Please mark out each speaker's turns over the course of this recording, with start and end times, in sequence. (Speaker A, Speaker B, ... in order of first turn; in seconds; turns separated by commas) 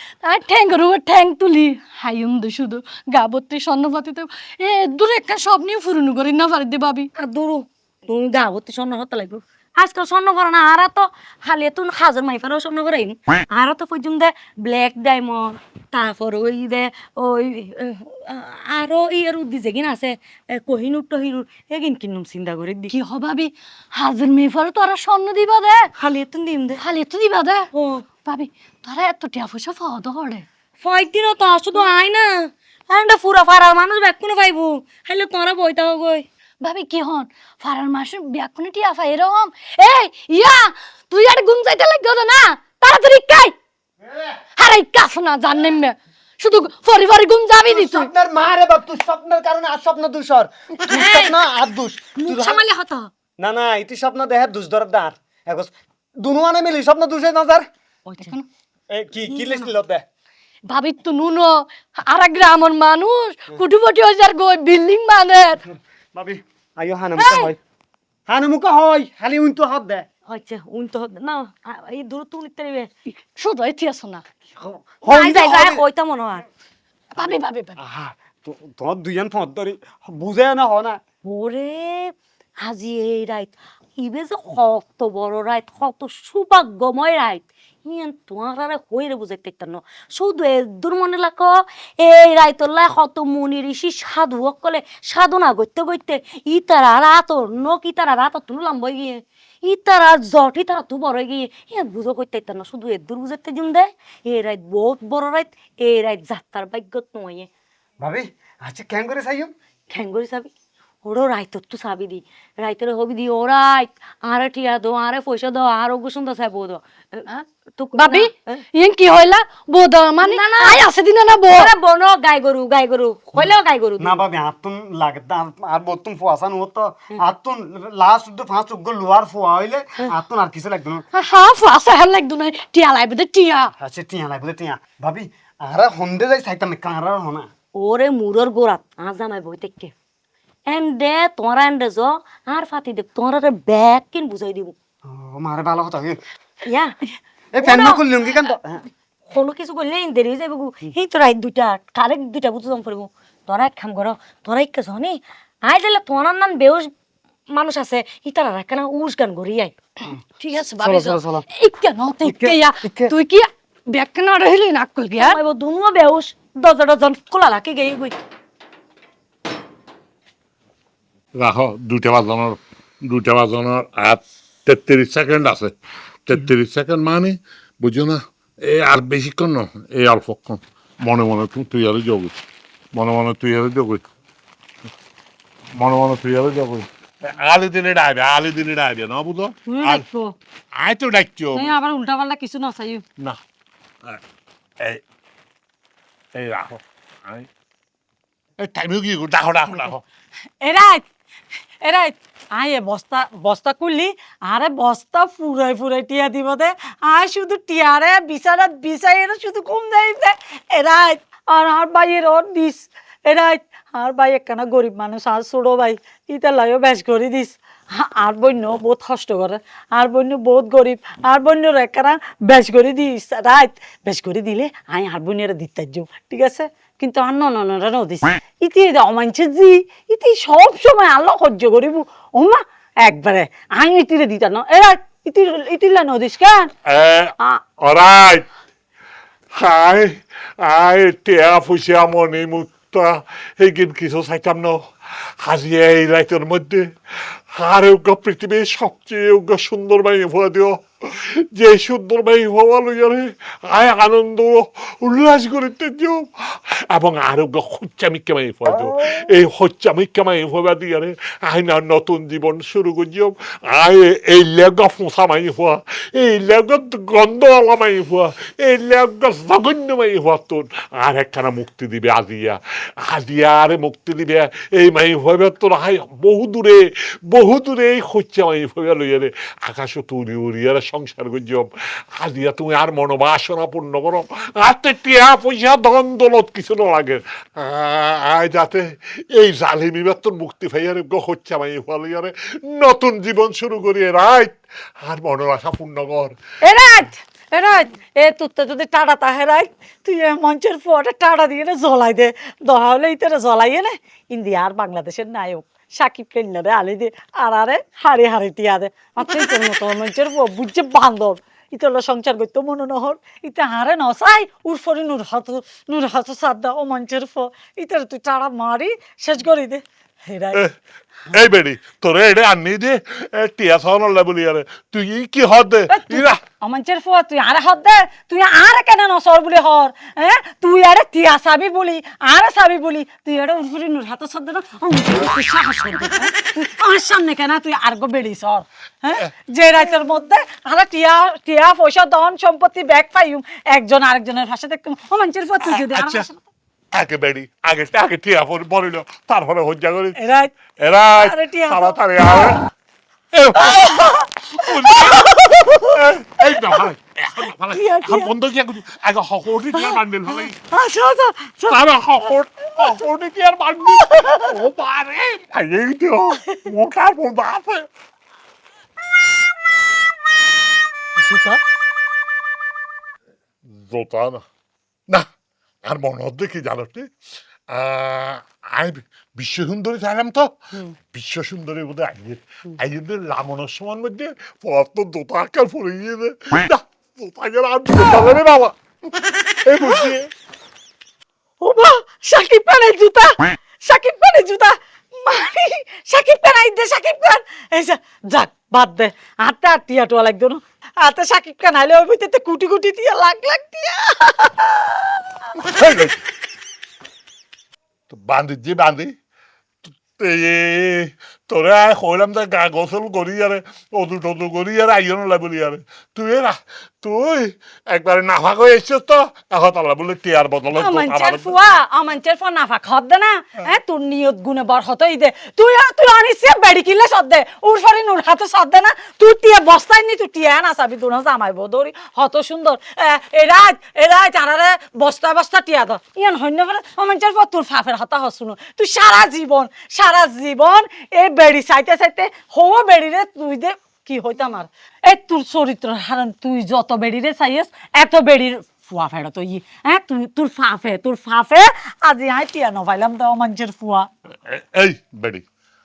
Speaker A: 0.2-7.1, Speaker B: 7.2-22.9, Speaker A: 22.9-25.9, Speaker B: 26.0-26.8, Speaker A: 26.8-27.7, Speaker B: 27.7-28.1, Speaker A: 28.2-30.5, Speaker B: 30.8-36.3, Speaker A: 36.6-43.5, Speaker A: 44.6-48.1, Speaker C: 47.6-52.6, Speaker B: 50.9-51.5, Speaker B: 52.2-53.1, Speaker C: 53.4-57.7, Speaker B: 58.1-58.4, Speaker A: 58.2-58.5, Speaker C: 58.9-60.0, Speaker B: 59.4-59.6, Speaker A: 60.7-65.6, Speaker C: 65.7-67.6, Speaker A: 67.2-67.5, Speaker C: 68.3-70.1, Speaker B: 70.3-72.9, Speaker A: 73.4-74.2, Speaker C: 74.6-75.8, Speaker B: 75.0-76.5, Speaker A: 77.2-77.8, Speaker C: 77.8-81.0, Speaker B: 81.2-107.5, Speaker C: 108.0-109.5, Speaker B: 109.9-110.5, Speaker B: 111.0-118.6, Speaker A: 118.0-121.7, Speaker B: 120.2-120.8, Speaker B: 121.5-124.2, Speaker C: 124.0-131.0, Speaker A: 131.1-133.7, Speaker C: 133.8-137.5, Speaker B: 137.8-139.9, Speaker B: 140.7-144.8, Speaker C: 145.1-146.2, Speaker B: 146.6-146.9, Speaker C: 147.5-148.8, Speaker B: 147.6-148.0, Speaker B: 149.3-156.9, Speaker B: 157.5-159.8, Speaker A: 160.4-165.4, Speaker C: 160.8-161.4, Speaker C: 162.2-163.1, Speaker B: 165.2-168.2, Speaker D: 171.4-175.7, Speaker D: 176.3-182.4, Speaker D: 182.9-184.0, Speaker D: 185.8-190.0, Speaker E: 189.7-190.4, Speaker D: 190.8-191.7, Speaker E: 191.5-193.1, Speaker D: 196.3-197.5, Speaker D: 198.6-200.0, Speaker E: 200.6-201.1, Speaker E: 201.8-236.7, Speaker D: 236.9-238.5, Speaker D: 239.5-296.4, Speaker C: 258.7-259.1, Speaker E: 296.6-320.6, Speaker D: 321.3-326.4, Speaker E: 325.9-346.4, Speaker D: 345.7-346.3, Speaker D: 346.9-350.2, Speaker E: 350.2-350.6, Speaker D: 350.8-352.6, Speaker E: 351.1-352.5, Speaker D: 353.3-360.6, Speaker E: 353.6-356.8, Speaker E: 357.7-358.3, Speaker E: 359.7-361.8, Speaker D: 361.7-367.9, Speaker D: 371.2-371.6, Speaker D: 373.6-374.4, Speaker D: 375.9-377.1, Speaker D: 377.7-380.5, Speaker D: 381.0-388.8, Speaker D: 389.6-390.3, Speaker E: 389.8-390.1, Speaker E: 391.6-405.9, Speaker D: 405.7-406.1, Speaker D: 408.1-409.1, Speaker D: 409.9-421.5, Speaker E: 420.8-454.1, Speaker D: 454.5-455.4